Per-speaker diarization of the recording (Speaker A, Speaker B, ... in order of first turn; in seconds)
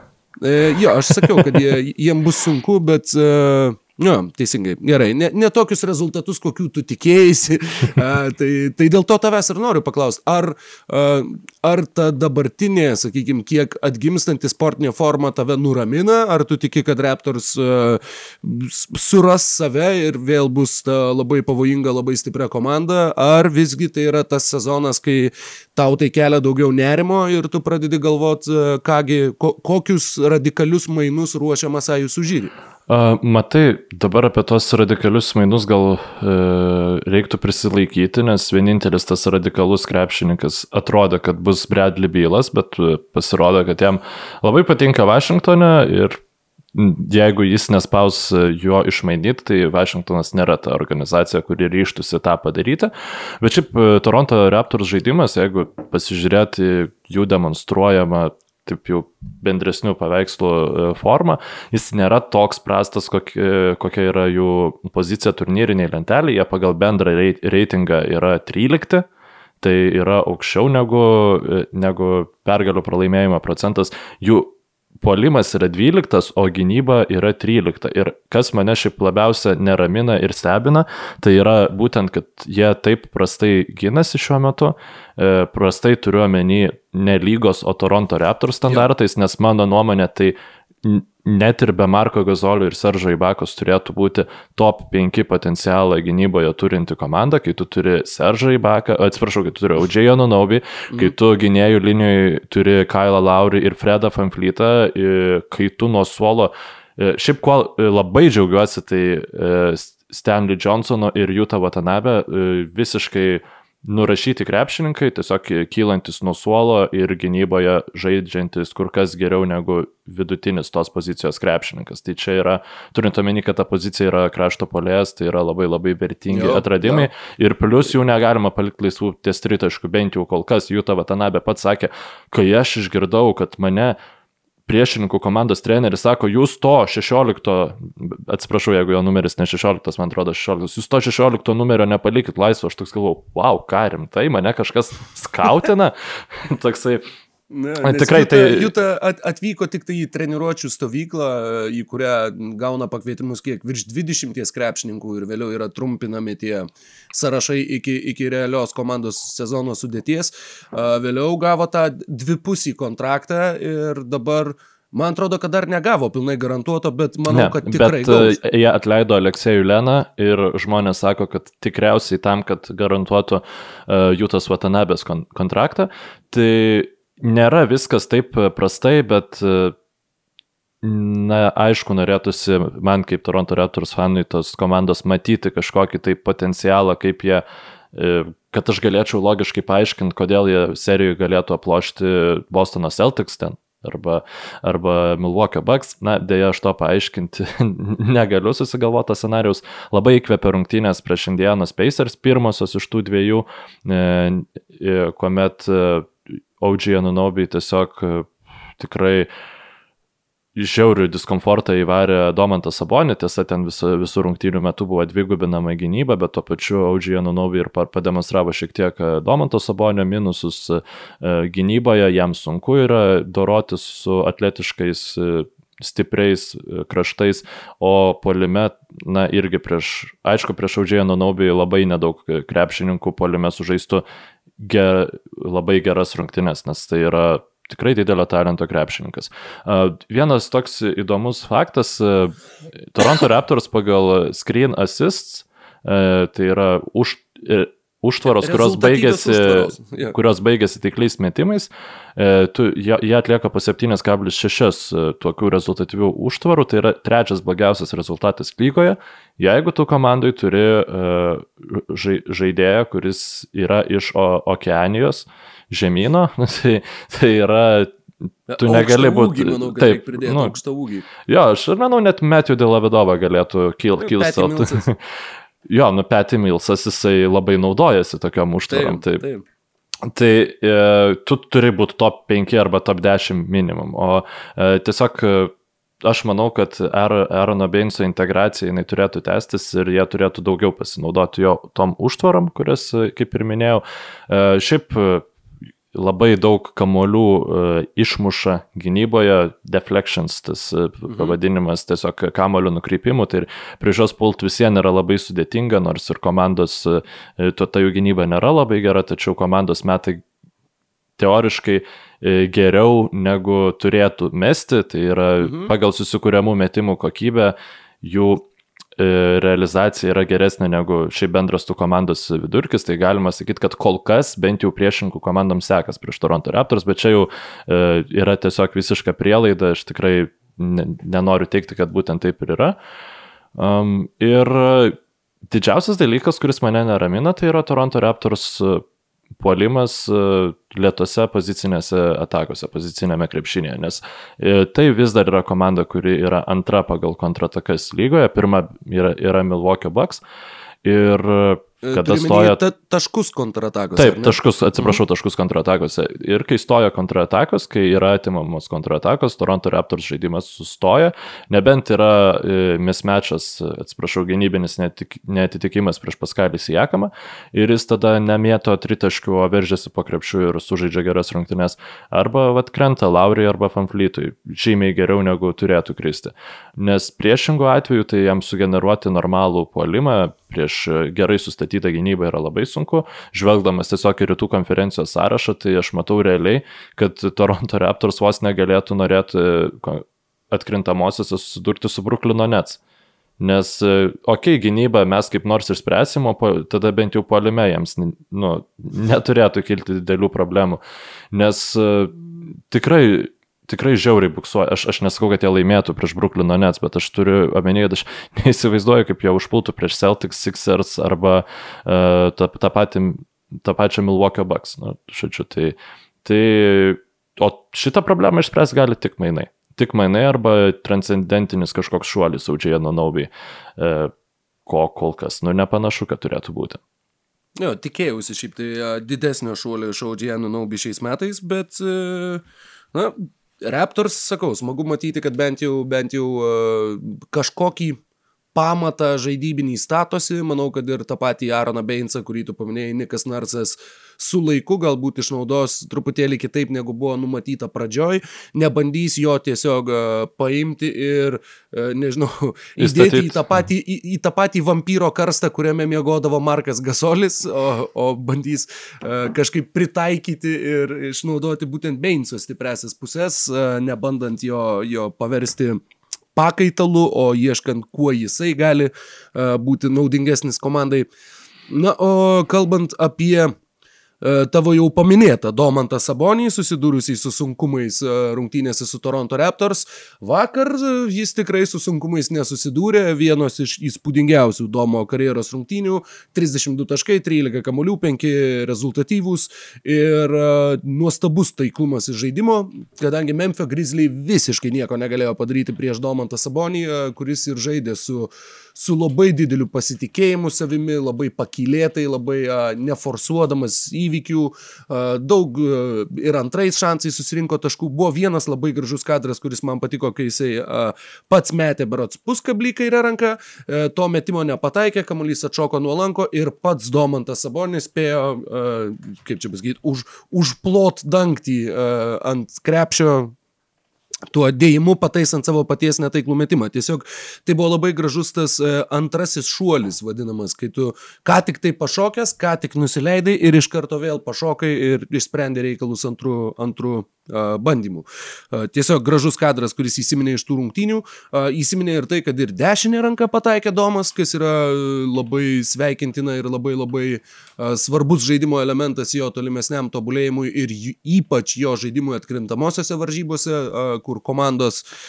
Speaker A: 0.4-32.5, 126.3-127.1, 147.5-168.4, 248.3-250.2, 268.5-271.1, 274.0-274.9, 278.7-279.4, 301.1-301.4, 315.4-315.7, 351.8-355.0, 427.6-432.4, 432.9-438.0, 438.5-465.8, 466.3-471.1, 471.7-473.5, 474.2-523.3, 524.3-554.8
Speaker B: 1.1-1.5, 32.9-46.2, 46.7-69.0, 69.6-133.9, 134.7-147.0, 147.8-148.7, 167.3-179.7, 180.8-209.3, 210.5-234.0, 234.6-267.9, 268.6-270.5, 271.2-275.0, 275.7-279.2, 280.1-295.3, 295.9-310.2, 311.2-332.8, 333.6-335.0, 335.5-338.8, 339.4-350.2, 350.8-352.6, 353.9-392.8, 393.4-400.8, 401.3-424.1, 424.6-426.8, 452.8-453.4